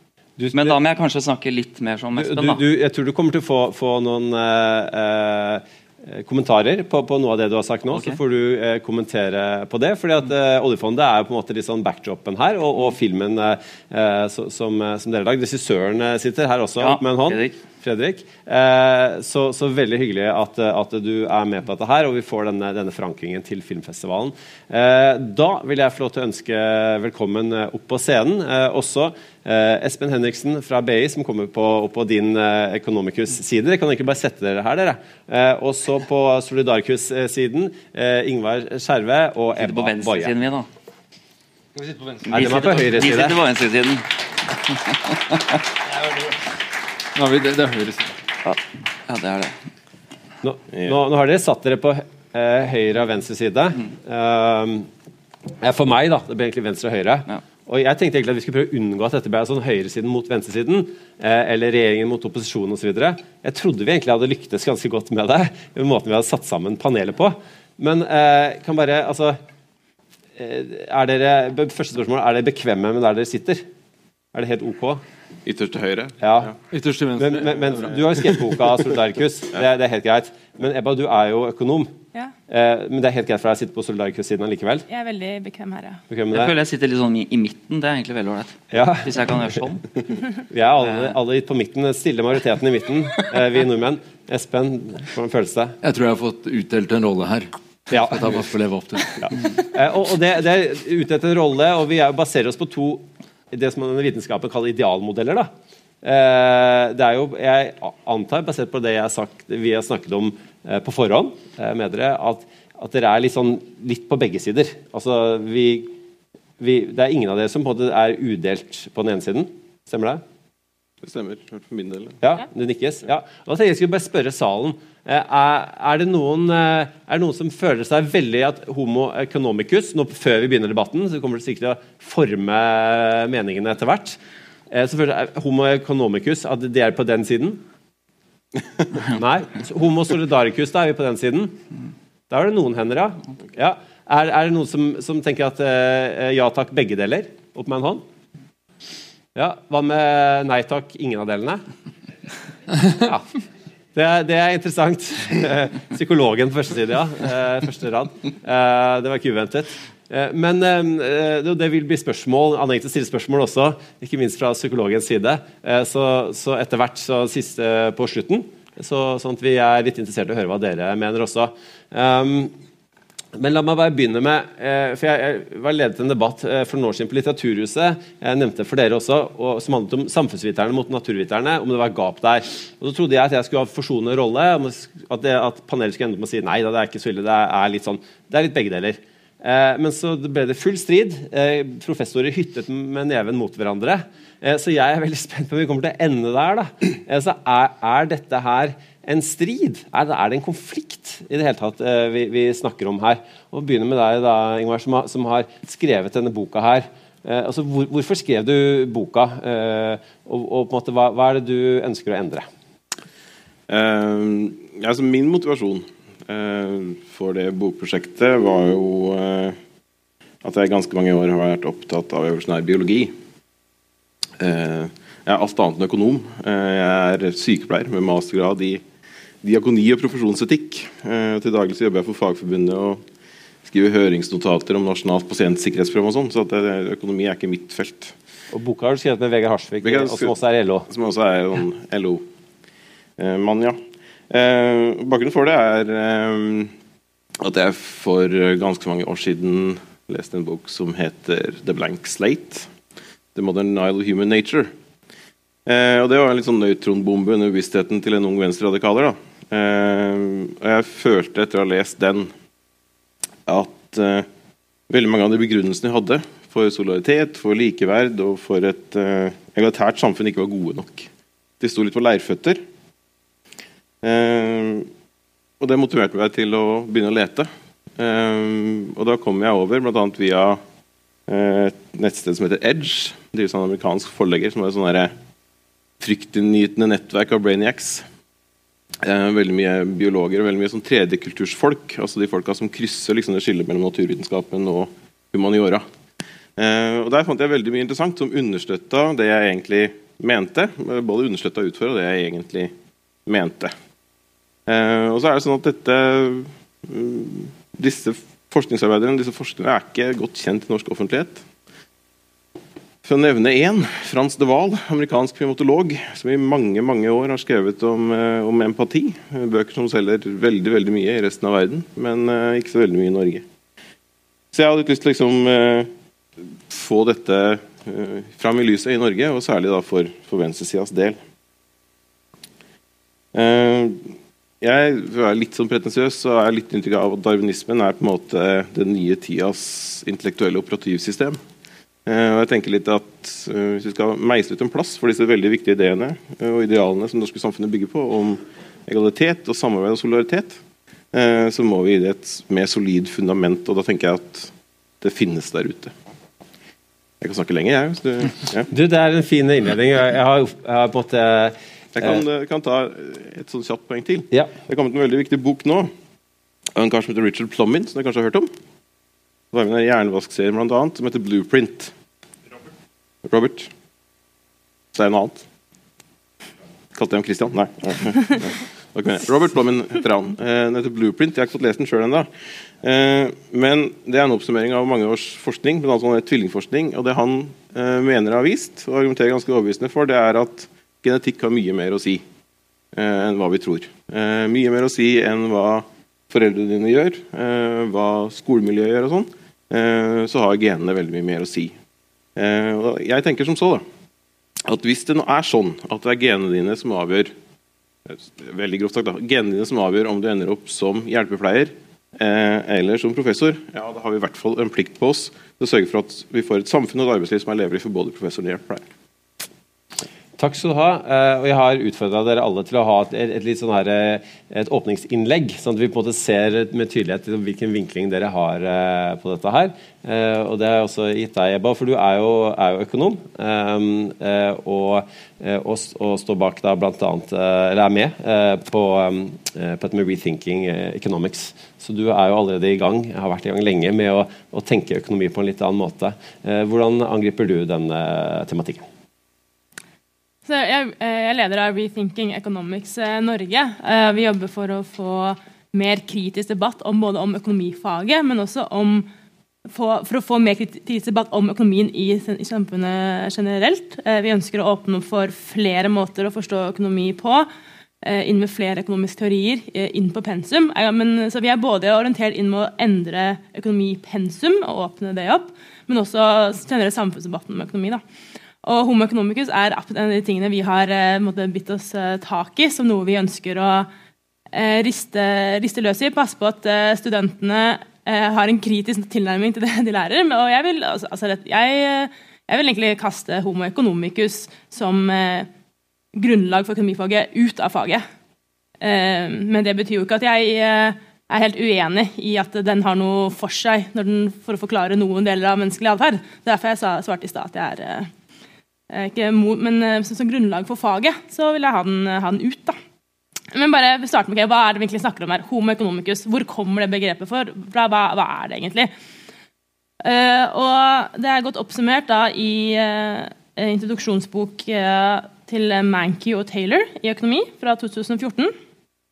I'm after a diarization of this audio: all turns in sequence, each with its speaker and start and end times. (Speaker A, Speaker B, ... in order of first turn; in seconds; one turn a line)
Speaker A: 0.4-0.8
Speaker B: 0.5-2.6
Speaker A: 2.1-40.3
Speaker B: 7.9-8.2
Speaker B: 16.8-17.6
Speaker B: 39.5-40.7
Speaker C: 41.8-42.6
Speaker A: 42.3-43.4
Speaker B: 42.3-44.1
Speaker B: 44.6-45.4
Speaker C: 47.1-48.1
Speaker B: 48.4-49.5
Speaker A: 50.4-54.9
Speaker A: 55.6-69.4
Speaker A: 70.3-73.6
Speaker A: 74.3-75.0
Speaker D: 75.5-76.2
Speaker A: 76.2-76.5
Speaker C: 76.7-78.4
Speaker A: 77.2-81.9
Speaker A: 82.5-84.8
Speaker E: 84.9-86.0
Speaker A: 86.1-86.5
Speaker B: 86.3-89.9
Speaker A: 88.7-89.4
Speaker A: 90.5-95.8
Speaker B: 90.8-91.1
Speaker C: 95.8-99.2
Speaker A: 97.9-98.3
Speaker A: 99.2-105.5
Speaker A: 106.0-115.9
Speaker A: 116.6-120.2
Speaker D: 121.0-122.2
Speaker A: 122.2-134.2
Speaker A: 134.7-137.6
Speaker A: 139.0-141.6
Speaker A: 142.3-148.0
Speaker A: 149.3-151.6
Speaker A: 152.9-153.2
Speaker A: 153.9-172.5
Speaker A: 173.3-212.5
Speaker D: 213.7-219.6
Speaker D: 220.4-223.1
Speaker D: 224.4-228.8
Speaker D: 229.4-233.0
Speaker D: 233.6-238.1
Speaker A: 238.5-240.8
Speaker D: 239.8-240.3
Speaker D: 240.9-242.2
Speaker D: 243.2-243.8
Speaker D: 244.3-246.7
Speaker D: 247.4-252.7
Speaker D: 253.3-254.7
Speaker D: 255.7-262.3
Speaker D: 263.5-264.3
Speaker D: 264.9-271.1
Speaker D: 271.6-272.6
Speaker D: 274.0-274.9
Speaker D: 275.6-280.6
Speaker D: 281.3-285.1
Speaker D: 286.0-288.0
Speaker D: 289.0-295.8
Speaker D: 296.6-302.7
Speaker D: 303.2-303.7
Speaker D: 304.7-311.4
Speaker D: 313.0-323.4
Speaker D: 324.5-325.9
Speaker D: 326.7-331.2
Speaker D: 333.3-334.1
Speaker D: 334.6-341.4
Speaker D: 342.1-350.6
Speaker D: 351.1-355.9
Speaker D: 357.2-358.7
Speaker A: 358.7-362.2
Speaker D: 361.9-365.9
Speaker D: 366.7-368.5
Speaker D: 369.5-371.9
Speaker D: 373.2-373.7
Speaker D: 374.9-375.4
Speaker D: 376.9-382.3
Speaker D: 382.8-392.2
Speaker D: 392.9-401.7
Speaker D: 402.4-403.8
Speaker D: 404.6-407.3
Speaker D: 408.1-418.9
Speaker A: 420.4-448.8
Speaker E: 450.4-459.1
Speaker E: 459.7-467.5
Speaker E: 468.0-478.0
Speaker E: 478.6-483.9
Speaker E: 484.5-495.5
Speaker E: 496.1-498.0
Speaker E: 498.8-508.1
Speaker E: 508.9-512.8
Speaker E: 513.5-518.9
Speaker E: 520.0-528.5